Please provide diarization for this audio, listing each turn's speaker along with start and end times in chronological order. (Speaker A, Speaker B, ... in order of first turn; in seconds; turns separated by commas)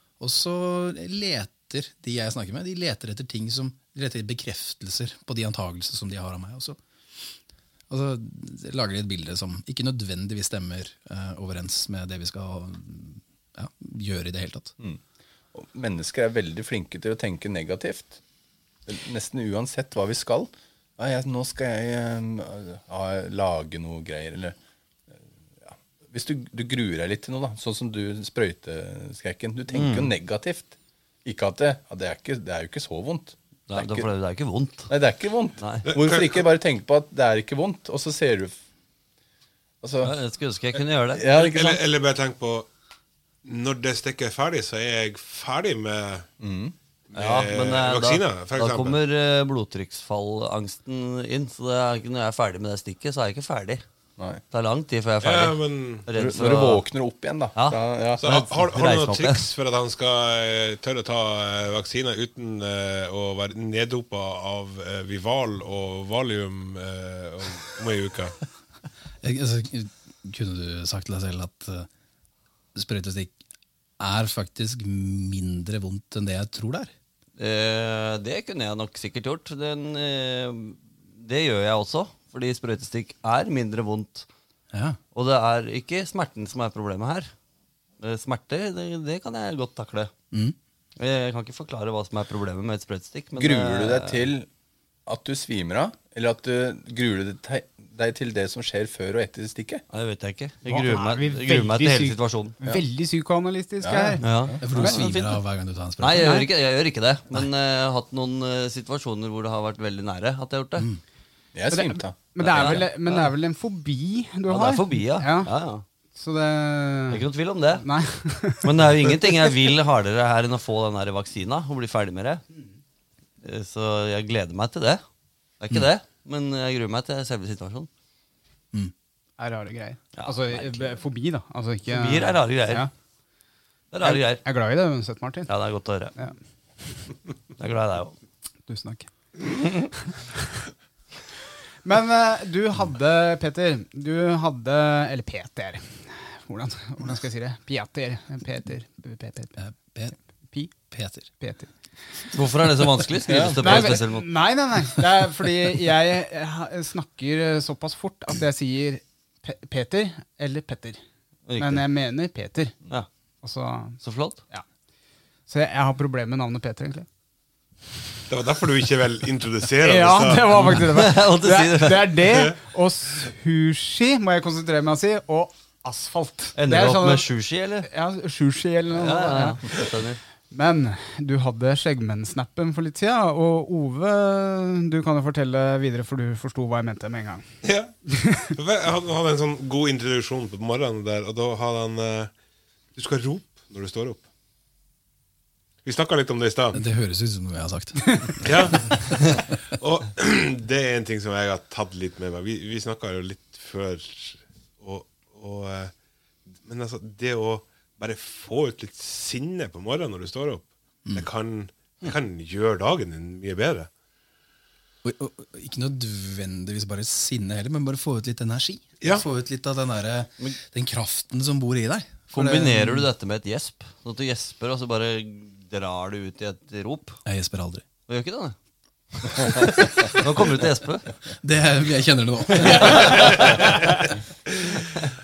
Speaker A: 0.2-7.4, Speaker A: 7.9-14.8, Speaker B: 15.5-18.2, Speaker B: 18.9-24.6, Speaker B: 25.6-34.1, Speaker C: 29.7-30.1, Speaker C: 33.7-34.9, Speaker B: 34.9-38.6, Speaker C: 35.6-35.9, Speaker D: 35.9-36.4, Speaker B: 39.8-40.1, Speaker C: 40.0-41.3, Speaker B: 41.1-41.8, Speaker D: 41.3-42.7, Speaker D: 43.4-46.3, Speaker B: 46.4-47.5, Speaker D: 47.1-49.0, Speaker C: 47.5-53.8, Speaker C: 54.5-56.8, Speaker D: 55.2-56.1, Speaker B: 56.1-58.2, Speaker C: 57.6-59.4, Speaker D: 58.2-68.4, Speaker A: 69.2-71.9, Speaker A: 72.7-73.3, Speaker A: 74.0-76.9, Speaker C: 77.4-84.3, Speaker A: 84.7-85.0, Speaker C: 85.1-87.3, Speaker C: 88.0-90.1, Speaker A: 90.3-90.6, Speaker C: 91.0-94.3, Speaker B: 93.4-94.5, Speaker B: 95.1-99.8, Speaker C: 99.9-102.6, Speaker E: 100.7-105.0, Speaker B: 103.8-104.7, Speaker C: 104.2-105.4, Speaker A: 104.6-106.5, Speaker C: 106.0-110.9, Speaker E: 106.2-106.5, Speaker A: 110.8-111.0, Speaker B: 111.5-112.8, Speaker E: 111.7-115.5, Speaker C: 112.4-113.3, Speaker C: 114.5-115.8, Speaker E: 116.2-117.2, Speaker C: 117.1-117.8, Speaker E: 117.8-118.7, Speaker C: 118.5-122.4, Speaker C: 123.4-125.0, Speaker C: 125.6-127.9, Speaker E: 129.4-132.9, Speaker C: 130.2-130.9, Speaker C: 131.9-132.9, Speaker C: 133.9-134.4, Speaker E: 134.0-135.5, Speaker C: 135.5-136.1, Speaker C: 137.6-138.2, Speaker E: 138.7-139.1, Speaker E: 140.0-140.4, Speaker E: 141.8-149.6, Speaker A: 149.6-150.2, Speaker A: 150.7-151.3, Speaker E: 151.4-151.7, Speaker C: 152.3-154.3, Speaker B: 153.3-153.9, Speaker E: 153.6-161.0, Speaker C: 161.5-161.8, Speaker E: 161.6-162.8, Speaker E: 163.4-164.7, Speaker C: 164.0-164.4, Speaker E: 165.5-167.1, Speaker D: 168.3-170.8, Speaker E: 169.8-177.3, Speaker C: 170.6-172.2, Speaker C: 176.6-177.9, Speaker E: 177.8-179.9, Speaker C: 178.9-180.2, Speaker E: 180.5-187.4, Speaker D: 187.6-192.3, Speaker E: 188.1-188.4, Speaker D: 192.9-194.2, Speaker D: 195.8-196.8, Speaker A: 196.7-199.2, Speaker D: 198.4-205.9, Speaker D: 206.6-213.9, Speaker A: 215.0-223.1, Speaker C: 222.3-227.2, Speaker A: 227.2-227.8, Speaker C: 228.1-228.6, Speaker C: 229.2-231.1, Speaker A: 231.4-233.4, Speaker C: 232.6-233.5, Speaker D: 233.1-234.8